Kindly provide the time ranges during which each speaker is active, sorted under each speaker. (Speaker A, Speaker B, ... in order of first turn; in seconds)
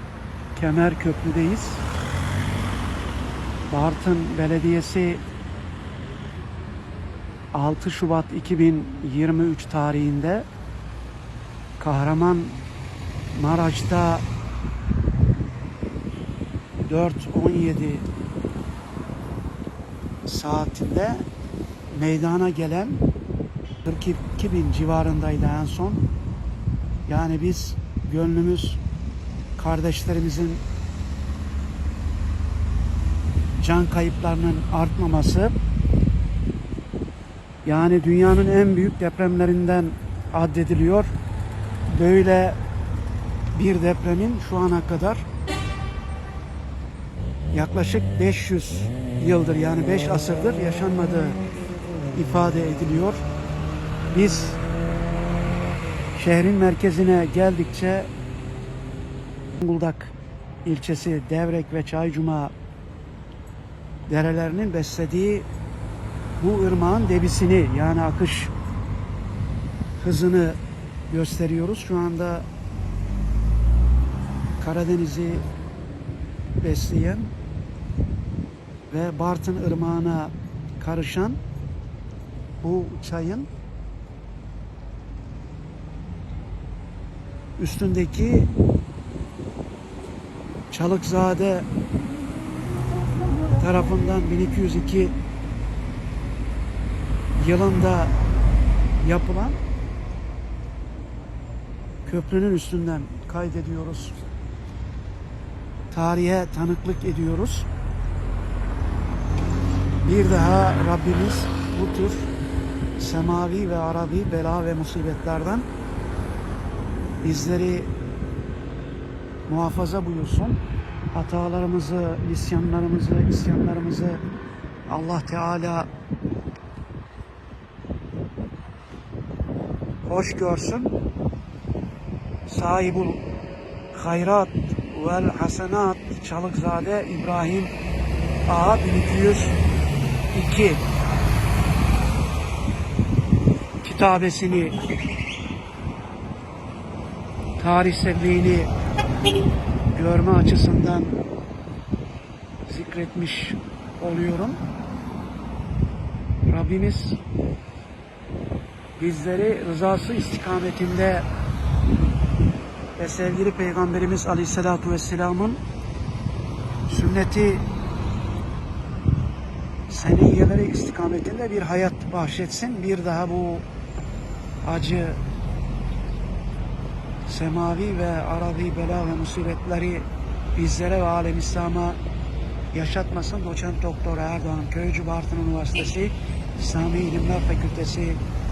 Speaker A: 0.6-1.8, 3.7-5.2, 7.5-10.5, 11.8-12.6, 13.3-14.2, 16.9-18.1, 20.2-21.3, 21.9-23.0, 23.9-26.1, 27.1-28.8, 29.6-30.6, 33.6-35.5, 37.6-41.1, 41.9-42.6, 43.5-45.3, 47.5-51.4, 52.1-53.2, 54.1-54.6, 56.2-58.1, 59.6-60.1, 60.6-62.5, 64.1-65.5, 66.4-68.5, 70.0-72.5, 74.6-75.5, 76.6-77.3, 78.9-81.4, 82.6-83.5, 87.6-88.5, 90.7-91.7, 93.6-95.2, 97.4-98.2, 99.0-99.6, 102.1-104.2, 105.9-107.7, 110.0-112.3, 113.0-115.7, 117.2-117.9, 119.5-120.6, 121.1-124.2, 124.9-125.9, 130.1-131.0, 132.5-133.2, 133.9-137.7, 138.5-139.6, 140.3-140.8, 143.8-144.8, 147.6-148.7, 149.9-151.2, 152.7-154.6, 156.5-157.2, 159.0-161.3, 163.0-165.6, 166.9-167.7, 169.9-173.7, 174.6-175.2, 177.2-182.0, 182.7-188.2